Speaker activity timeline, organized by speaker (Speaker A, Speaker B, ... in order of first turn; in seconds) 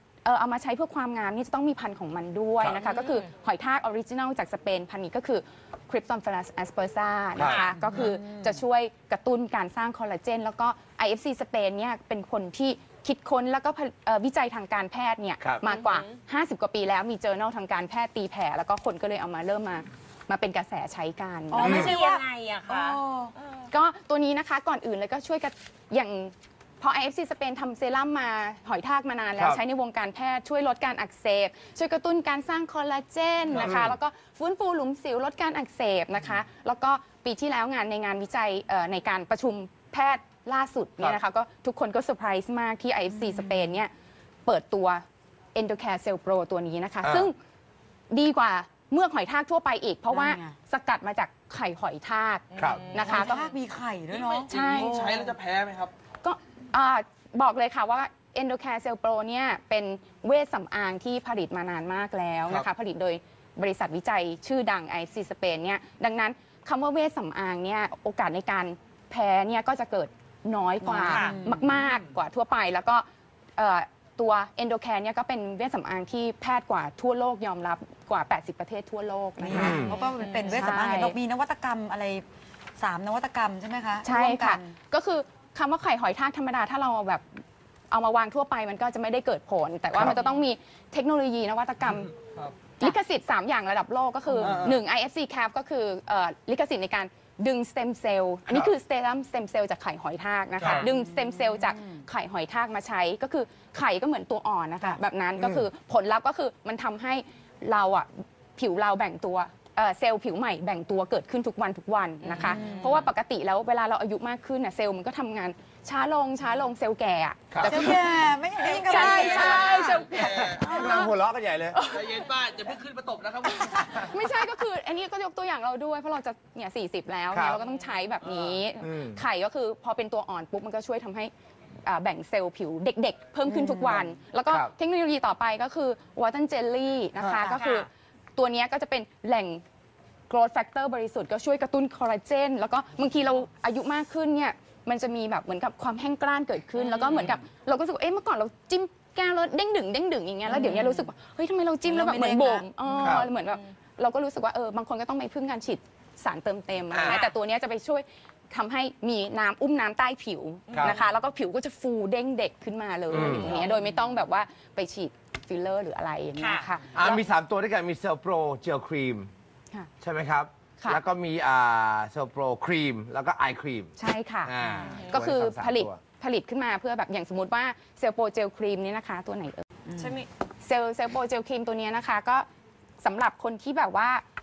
Speaker A: 0.2-21.9, 23.7-43.9, 44.5-47.4, 48.1-53.4, 54.5-55.2, 56.2-73.0, 73.6-80.0, 80.5-81.2, 84.0-87.2, 87.9-92.1, 92.8-121.2, 121.7-122.4, 123.6-131.3, 131.8-139.6, 140.3-167.2, 174.0-179.6, 180.6-182.5, 183.0-184.2
Speaker B: 2.8-3.3, 7.4-8.1, 15.6-16.1, 21.7-23.7, 52.5-53.5, 71.0-71.3, 79.9-80.8, 112.3-113.0, 146.8-147.3, 150.5-151.0, 153.0-153.3, 157.0-157.3, 163.2-163.8, 166.4-166.7, 174.8-175.2, 180.0-180.3
Speaker C: 7.4-7.7, 21.6-21.9, 29.4-29.6, 33.5-34.0, 47.0-47.3, 52.6-52.8, 79.5-79.9, 98.5-98.7, 105.4-105.7, 117.5-117.8, 120.1-121.8, 127.3-127.6, 128.8-129.2, 153.0-153.3, 156.9-157.2, 160.7-161.0, 163.1-163.6, 166.9-169.3, 170.0-176.0
Speaker D: 21.5-23.3, 43.2-43.7, 50.1-50.6, 53.0-55.3, 70.8-71.8, 79.4-82.2, 82.8-84.7, 112.3-112.9, 117.6-120.1, 133.5-134.0, 137.2-137.8, 151.8-152.7
Speaker E: 54.6-55.9, 121.9-123.7